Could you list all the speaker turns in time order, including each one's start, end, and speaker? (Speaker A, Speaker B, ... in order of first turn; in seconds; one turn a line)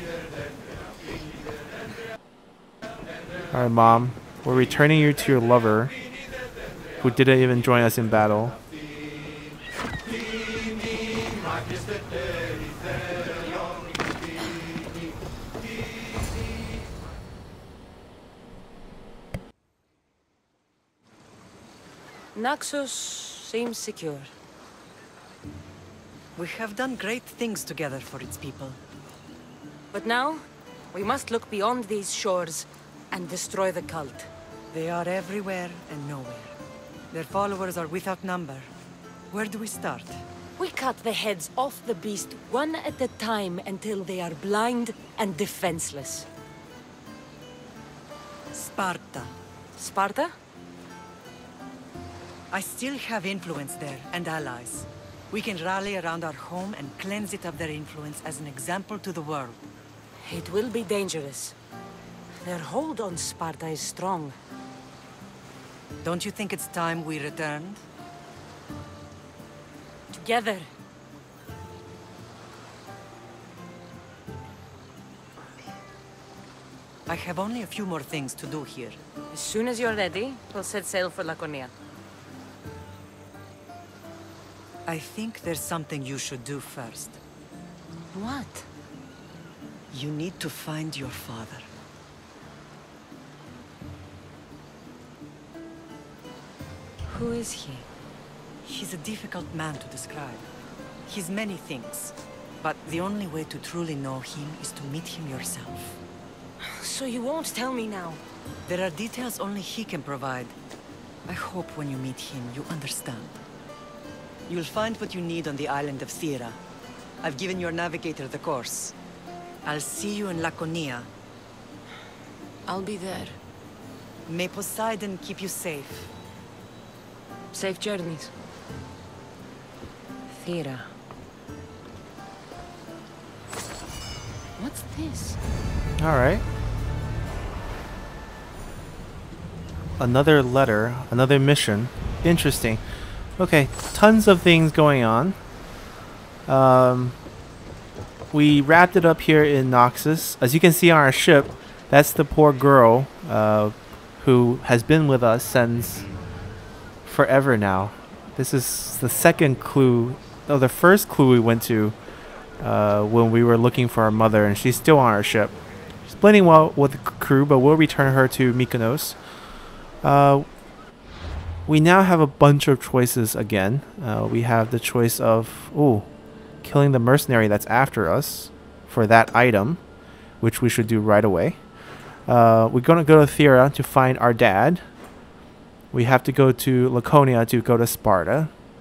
Speaker A: 3.5-5.9
Speaker A: 7.0-8.6
Speaker B: 22.3-24.3
Speaker C: 26.4-28.8
Speaker B: 29.9-30.4
Speaker B: 30.9-34.3
Speaker C: 34.7-36.5
Speaker C: 37.1-38.7
Speaker C: 39.3-40.2
Speaker B: 40.6-46.3
Speaker C: 48.5-49.3
Speaker B: 49.8-50.3
Speaker C: 52.5-59.7
Speaker B: 60.2-61.5
Speaker B: 62.4-64.3
Speaker C: 66.0-67.8
Speaker B: 70.1-70.7
Speaker C: 77.1-79.0
Speaker B: 79.3-81.7
Speaker C: 84.8-87.2
Speaker B: 88.1-88.7
Speaker C: 89.9-91.7
Speaker B: 97.1-97.8
Speaker C: 98.6-100.5
Speaker C: 101.0-106.0
Speaker B: 106.6-108.2
Speaker C: 108.7-110.5
Speaker C: 111.2-113.4
Speaker C: 114.5-116.6
Speaker C: 117.2-119.0
Speaker C: 119.6-121.1
Speaker B: 122.7-123.4
Speaker C: 124.3-126.1
Speaker B: 127.5-128.3
Speaker B: 130.3-130.9
Speaker B: 134.6-135.4
Speaker A: 136.0-136.4
Speaker A: 140.0-142.8
Speaker A: 143.4-145.4
Speaker A: 146.5-147.2
Speaker A: 148.3-156.1
Speaker A: 157.0-161.9
Speaker A: 162.6-165.5
Speaker A: 166.1-169.2
Speaker A: 170.0-170.4
Speaker A: 171.7-176.1
Speaker A: 176.6-179.8
Speaker A: 180.4-181.6
Speaker A: 182.2-184.8
Speaker A: 185.9-188.5